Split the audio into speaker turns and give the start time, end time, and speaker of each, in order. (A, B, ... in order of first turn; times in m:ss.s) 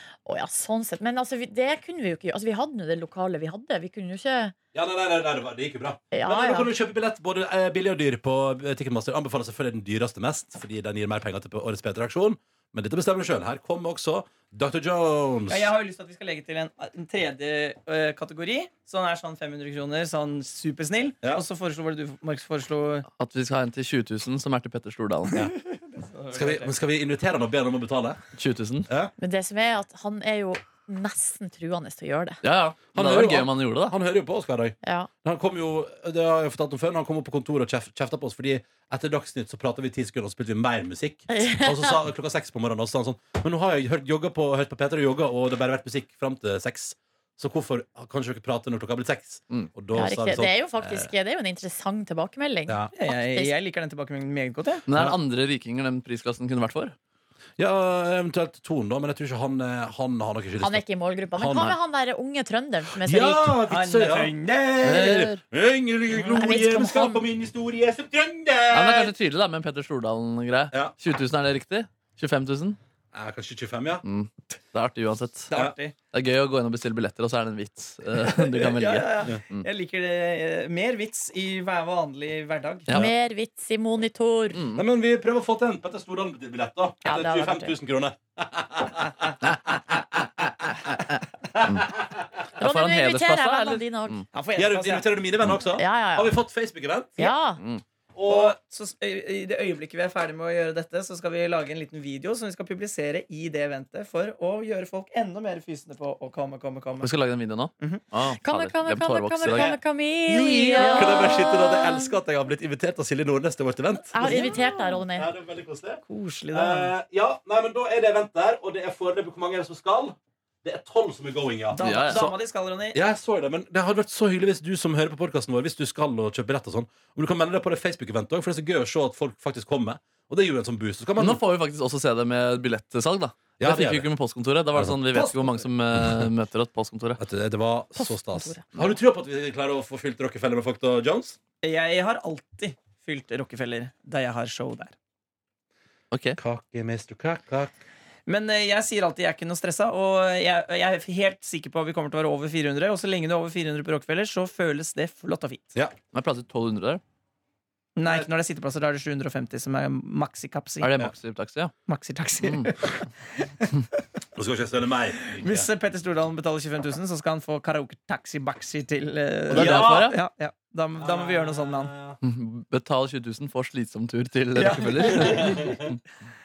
0:00.2-0:04.6 A
0:04.7-0:15.7 B
0:06.1-0:06.7 A
0:15.5-0:23.1 C
0:23.2-0:25.4 D
0:25.7-0:26.7 C
0:26.3-0:28.2 B
0:28.4-0:28.9 D
0:28.9-0:29.1 B
0:29.2-0:32.4 A
0:32.4-0:34.0 D
0:33.0-0:51.1 B
0:34.8-0:35.1 A
0:41.3-0:42.0 A
0:49.9-0:53.5 A
0:52.7-0:52.9 B
0:53.0-0:54.8 C
0:54.9-0:57.0 D
0:57.6-1:00.8 B
1:00.6-1:03.6 A
1:01.4-1:01.8 B
1:03.0-1:09.1 B
1:03.7-1:04.9 C
1:04.8-1:05.4 D
1:06.1-1:06.4 C
1:06.3-1:07.3 A
1:08.7-1:12.8 D
1:13.1-1:14.0 B
1:14.0-1:15.5 D
1:15.5-1:16.0 C
1:16.1-1:19.7 D
1:18.2-1:22.9 C
1:22.9-1:24.6 A
1:24.5-1:24.8 D
1:24.8-1:31.0 B
1:27.0-1:27.7 A
1:31.5-1:32.3 B
1:32.6-1:34.2 D
1:32.6-1:34.2 A
1:34.3-1:35.0 C
1:34.6-1:37.3 B
1:35.6-1:36.4 A
1:37.2-1:37.6 A
1:37.6-1:37.8 D
1:38.2-1:38.6 B
1:38.3-1:47.1 C
1:47.0-1:49.7 D
1:48.4-1:52.2 A
1:50.3-1:51.3 D
1:50.3-1:54.6 B
1:54.1-1:55.3 A
1:54.2-1:54.9 C
1:55.1-2:02.4 B
1:56.1-1:56.9 C
2:01.7-2:03.0 C
2:01.8-2:02.3 D
2:02.9-2:11.4 B
2:11.2-2:17.2 D
2:13.6-2:14.1 B
2:14.7-2:15.4 B
2:16.0-2:16.3 B
2:17.2-2:21.4 B
2:18.0-2:18.7 A
2:21.6-2:24.9 C
2:26.1-2:26.4 D
2:26.4-2:27.8 B
2:28.3-2:35.8 C
2:36.1-2:37.0 D
2:38.0-2:40.9 C
2:40.8-2:41.7 D
2:41.9-2:43.8 C
2:42.4-2:42.7 D
2:44.3-2:45.7 B
2:45.2-2:51.9 C
2:49.5-2:50.2 D
2:49.5-2:50.1 B
2:51.0-2:52.2 B
2:52.2-2:56.0 D
2:54.6-2:55.8 C
2:55.1-2:55.9 B